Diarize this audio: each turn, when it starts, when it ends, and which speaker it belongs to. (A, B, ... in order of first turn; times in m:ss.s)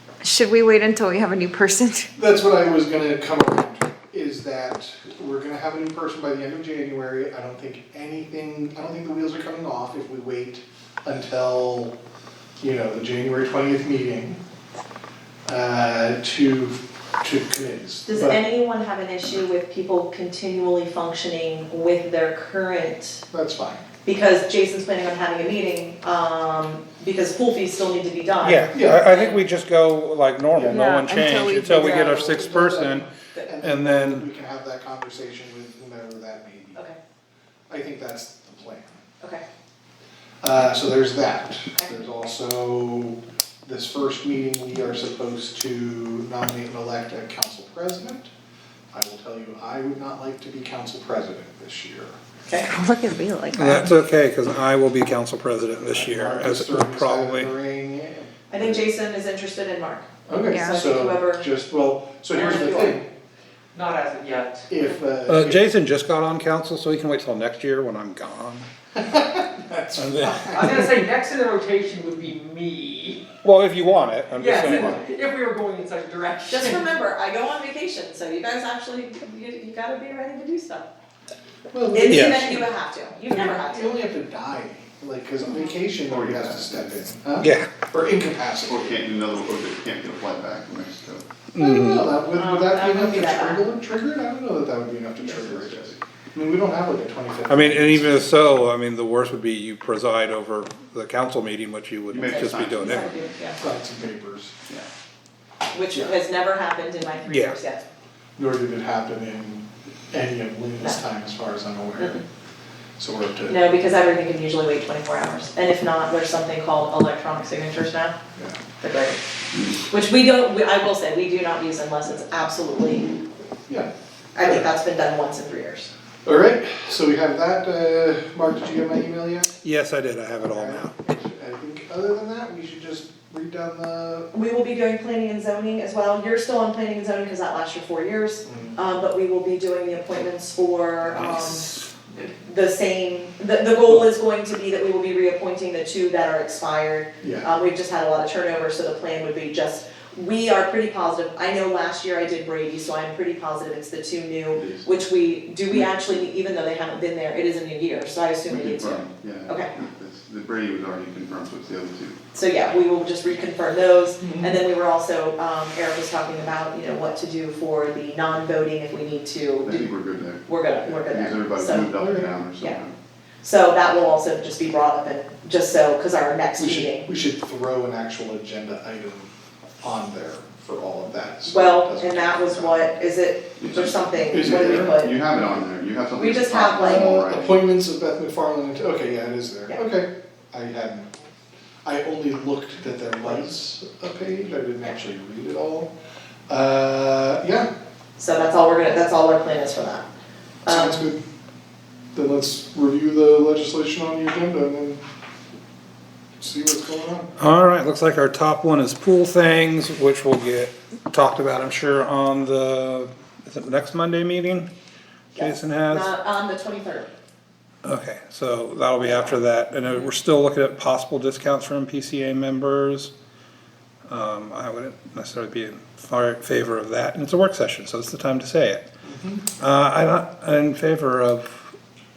0:00.2-0:02.1 A
0:02.2-0:11.9 B
0:12.6-0:14.4 B
0:15.5-0:18.4 B
0:18.0-0:23.2 C
0:23.3-0:23.8 B
0:24.0-0:29.4 C
0:28.4-0:34.2 D
0:28.7-0:29.0 B
0:30.5-0:30.9 B
0:30.7-0:32.2 A
0:31.6-0:36.8 B
0:37.7-0:39.0 B
0:40.4-0:48.3 B
0:48.9-0:52.2 B
0:52.6-0:53.8 A
0:53.5-0:57.5 D
0:55.9-0:58.8 B
0:58.5-1:01.5 C
1:00.3-1:03.0 B
1:00.5-1:00.8 A
1:02.3-1:02.9 C
1:02.3-1:03.0 E
1:03.7-1:04.8 E
1:04.7-1:05.7 B
1:05.3-1:08.7 D
1:09.0-1:10.9 B
1:10.0-1:10.8 D
1:10.5-1:13.2 E
1:13.4-1:15.0 D
1:14.3-1:16.9 E
1:14.6-1:15.1 B
1:16.5-1:20.9 C
1:21.7-1:22.7 B
1:21.9-1:24.0 C
1:22.1-1:22.5 D
1:23.3-1:29.0 B
1:26.0-1:27.0 F
1:27.4-1:27.7 D
1:28.7-1:31.2 F
1:31.5-1:32.2 D
1:31.6-1:38.7 B
1:32.3-1:33.7 C
1:35.2-1:36.0 F
1:37.5-1:43.1 D
1:42.1-1:43.1 F
1:42.3-1:43.6 C
1:43.6-1:44.5 B
1:45.7-1:47.8 C
1:47.2-1:47.6 D
1:48.4-1:52.2 B
1:53.0-1:53.6 B
1:53.5-1:58.2 C
1:58.8-1:59.2 C
1:59.8-2:03.1 C
2:03.7-2:04.6 B
2:04.3-2:05.9 C
2:06.2-2:09.5 B
2:09.6-2:10.9 D
2:10.4-2:14.3 B
2:14.3-2:21.7 C
2:18.4-2:18.8 B
2:21.2-2:21.5 D
2:22.3-2:39.7 C
2:27.2-2:27.5 B
2:34.5-2:34.8 F
2:38.4-2:42.2 F
2:42.3-2:52.0 C
2:44.2-2:44.6 B
2:49.6-2:52.9 F
2:52.0-2:52.3 B
2:53.4-2:57.1 C
2:56.6-3:02.9 B
3:01.5-3:05.3 C
3:03.6-3:07.6 F
3:04.4-3:04.9 B
3:06.2-3:07.3 C
3:06.8-3:11.1 B
3:11.8-3:15.9 B
3:16.5-3:17.7 B
3:18.2-3:20.0 C
3:20.6-3:21.0 C
3:20.7-3:21.2 B
3:22.1-3:25.0 B
3:26.4-3:27.3 B
3:27.4-3:34.7 D
3:35.3-3:37.1 C
3:35.4-3:36.1 D
3:37.8-3:43.1 D
3:44.1-3:48.9 D
3:49.0-3:49.4 B
3:49.6-3:51.7 D